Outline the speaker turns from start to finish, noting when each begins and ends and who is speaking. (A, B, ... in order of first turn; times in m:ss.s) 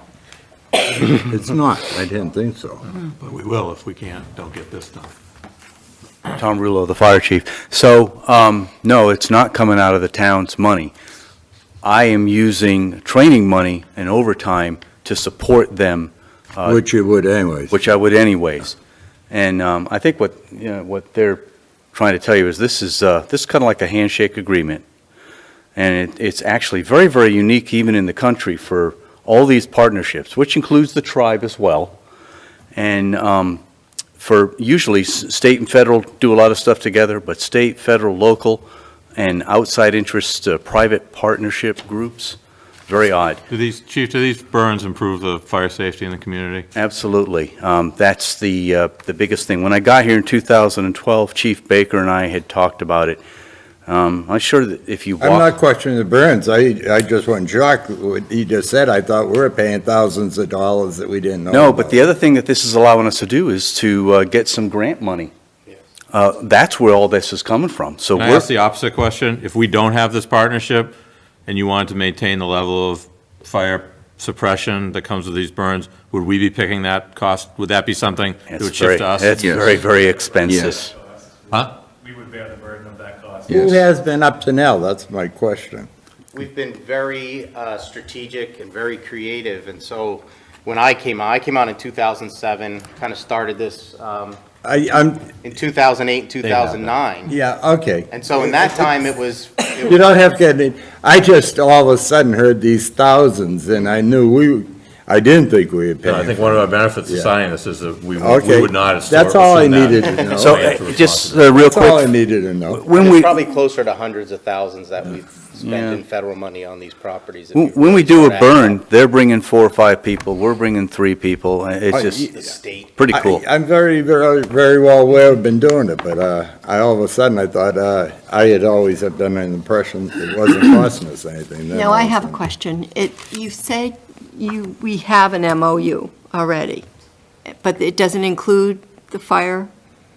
0:01.1-0:02.9 A
0:03.1-0:05.1 B
0:06.4-0:10.9 C
0:11.8-0:16.8 C
0:16.6-0:17.8 A
0:17.7-0:18.8 C
0:19.3-0:24.8 C
0:25.8-0:32.0 C
0:32.7-0:33.6 C
0:34.2-0:43.4 C
0:43.5-0:46.7 B
0:46.7-0:53.2 C
0:53.9-0:55.5 C
0:55.2-1:02.0 A
1:01.5-1:05.3 C
1:06.1-1:08.5 C
1:08.2-1:11.0 B
1:11.5-1:19.8 B
1:18.5-1:20.9 C
1:19.6-1:23.9 D
1:23.5-1:25.9 A
1:26.3-1:34.4 E
1:34.6-1:35.4 A
1:35.4-1:37.3 E
1:37.3-1:38.9 A
1:38.1-1:40.1 E
1:39.8-1:47.3 A
1:46.0-1:51.5 B
1:48.2-1:50.8 A
1:50.4-1:52.1 C
1:51.6-1:52.8 A
1:52.7-1:53.4 C
1:53.0-1:58.8 E
1:55.6-1:56.0 C
1:57.5-2:03.4 C
2:01.9-2:02.3 A
2:02.3-2:02.9 E
2:03.1-2:12.4 A
2:11.7-2:16.9 F
2:17.5-2:19.7 F